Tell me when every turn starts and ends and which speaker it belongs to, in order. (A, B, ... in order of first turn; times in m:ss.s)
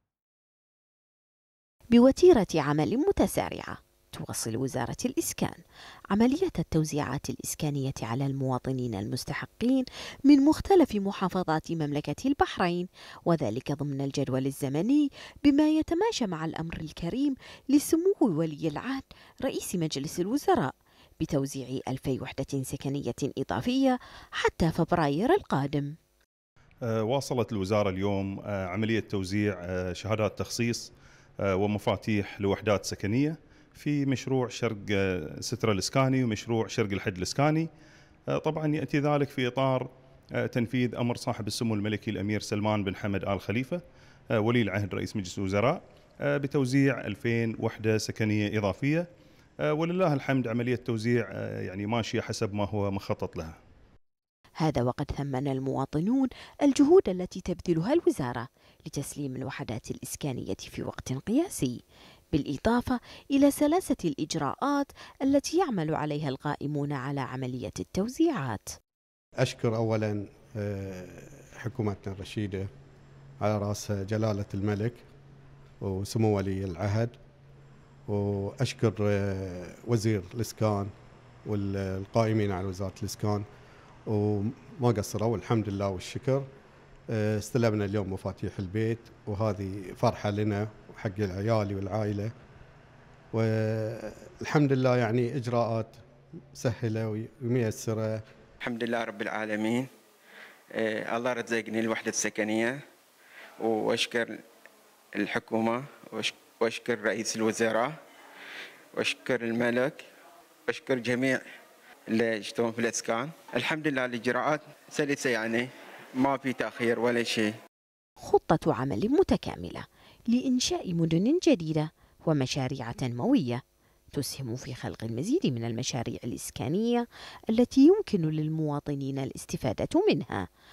0:01.9-0:05.6 A
0:06.1-0:26.0 A
0:26.9-0:37.7 B
0:38.3-0:39.9 B
0:40.4-0:43.8 B
0:44.4-0:49.1 B
0:49.6-0:53.6 B
0:54.6-1:01.8 A
1:02.3-1:08.8 A
1:09.4-1:12.7 C
1:13.4-1:15.0 C
1:15.8-1:17.1 C
1:18.1-1:20.9 C
1:21.4-1:23.4 C
1:24.1-1:26.5 C
1:27.1-1:32.3 C
1:33.3-1:36.0 C
1:36.5-1:38.2 C
1:38.6-1:39.9 D
1:40.7-1:42.8 D
1:43.6-1:44.4 D
1:45.2-1:48.0 D
1:48.9-1:50.0 D
1:50.7-1:51.4 D
1:52.1-1:57.6 D
1:58.2-2:03.6 A
2:04.1-2:10.4 A